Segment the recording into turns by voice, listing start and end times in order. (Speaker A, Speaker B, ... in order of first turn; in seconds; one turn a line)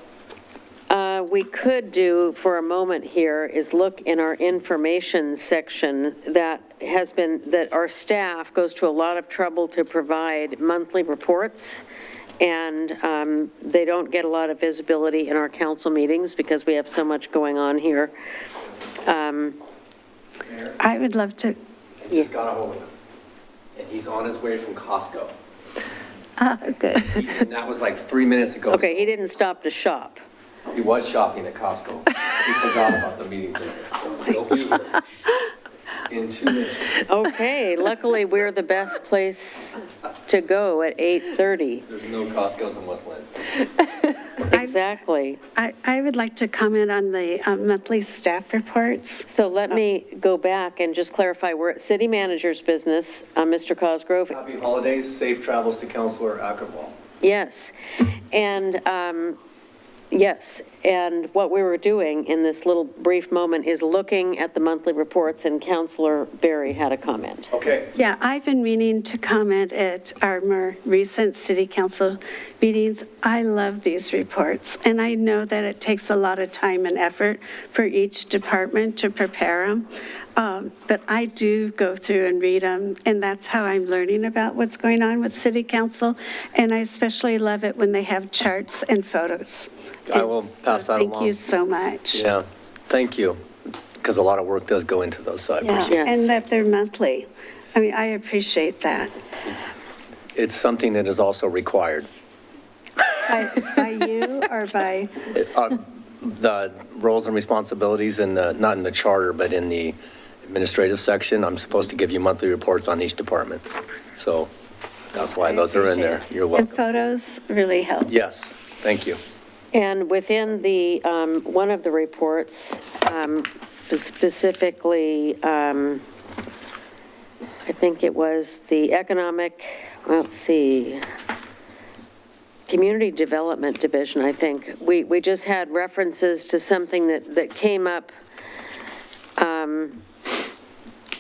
Speaker A: 0.9-11.8
Speaker A: 12.4-18.1
Speaker A: 19.0-19.6
Speaker B: 20.5-20.8
Speaker C: 20.8-21.6
Speaker B: 22.0-22.9
Speaker B: 23.8-25.3
Speaker C: 26.4-27.2
Speaker B: 27.1-29.1
Speaker A: 28.7-30.2
Speaker B: 30.7-35.0
Speaker B: 36.1-36.9
Speaker A: 37.0-39.7
Speaker A: 40.3-41.9
Speaker B: 41.9-43.4
Speaker A: 44.5-45.4
Speaker C: 44.5-44.8
Speaker C: 45.6-49.8
Speaker A: 49.3-54.4
Speaker B: 54.3-56.9
Speaker A: 57.2-57.7
Speaker A: 58.3-59.4
Speaker A: 60.1-67.5
Speaker B: 67.5-67.9
Speaker C: 68.0-92.2
Speaker B: 90.1-91.4
Speaker B: 92.1-93.4
Speaker B: 94.0-95.9
Speaker C: 95.6-99.1
Speaker A: 95.8-96.3
Speaker B: 99.5-99.7
Speaker B: 100.3-102.1
Speaker C: 103.3-105.1
Speaker B: 105.3-113.6
Speaker B: 114.2-114.5
Speaker B: 115.1-116.8
Speaker C: 115.4-118.1
Speaker B: 118.1-119.2
Speaker A: 119.7-126.0
Speaker A: 127.7-131.0
Speaker A: 132.7-138.1
Speaker A: 139.4-140.0